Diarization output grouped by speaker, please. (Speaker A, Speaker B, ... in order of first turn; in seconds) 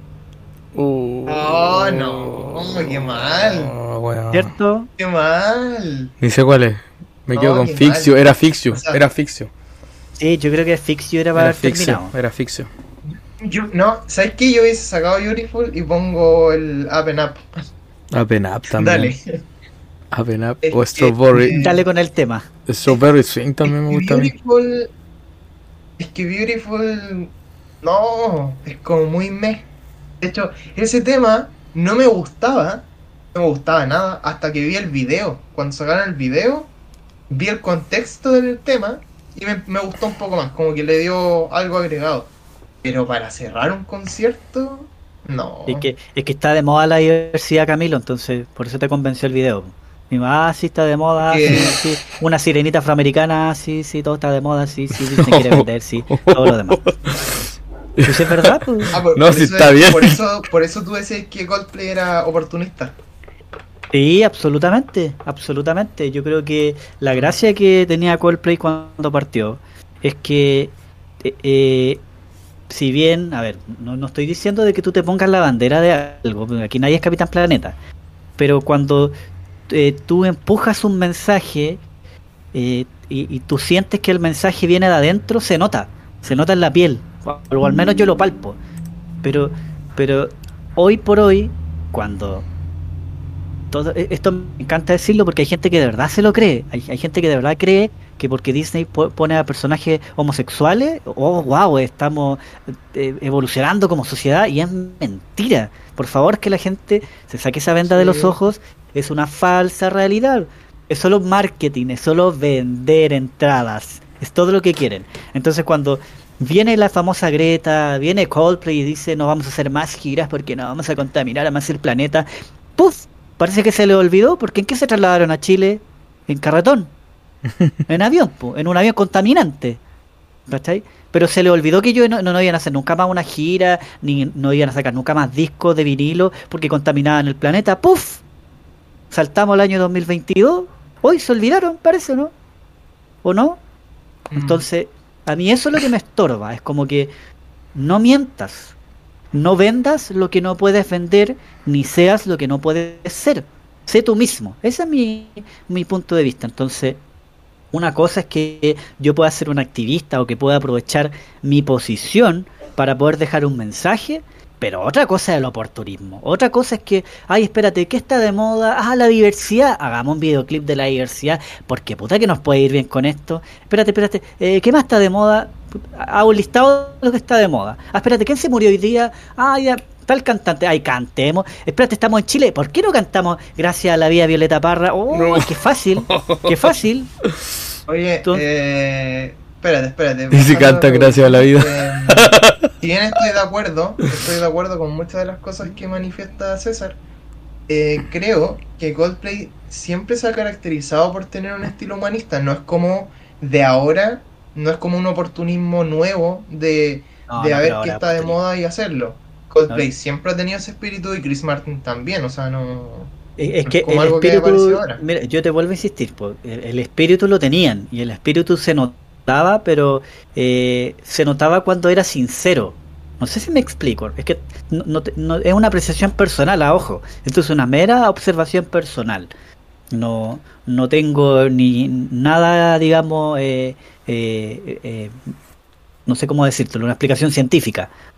Speaker A: 0.7-4.5, 6.2-9.5, 11.3-12.7, 18.1-19.1, 20.1-21.7, 22.7-24.3, 54.9-57.4, 58.0-60.2, 185.1-186.8, 190.3-192.6
Speaker B: 1.3-3.8, 5.0-6.1, 7.3-8.1, 8.7-9.0, 13.4-17.4, 18.7-19.2, 20.6-21.8, 23.6-24.9, 26.0-29.7, 30.2-36.7, 37.3-42.3, 42.8-45.9, 51.2-51.8, 58.9-63.0, 107.9-108.4, 144.3-144.6, 187.9-197.0, 197.7-213.1, 213.7-215.0
Speaker C: 4.3-4.9, 10.2-12.1, 21.6-22.5, 45.7-56.9, 58.0-58.9, 63.9-72.0, 72.7-77.8, 78.4-79.1, 79.7-81.8, 82.5-88.6, 89.2-92.5, 93.7-126.9, 127.9-129.8, 130.5-138.2, 139.1-142.3, 143.2-143.6, 144.4-147.1, 147.8-148.7, 149.3-157.0, 157.7-187.1, 207.3-208.4, 213.4-229.3, 229.9-235.2, 236.1-237.9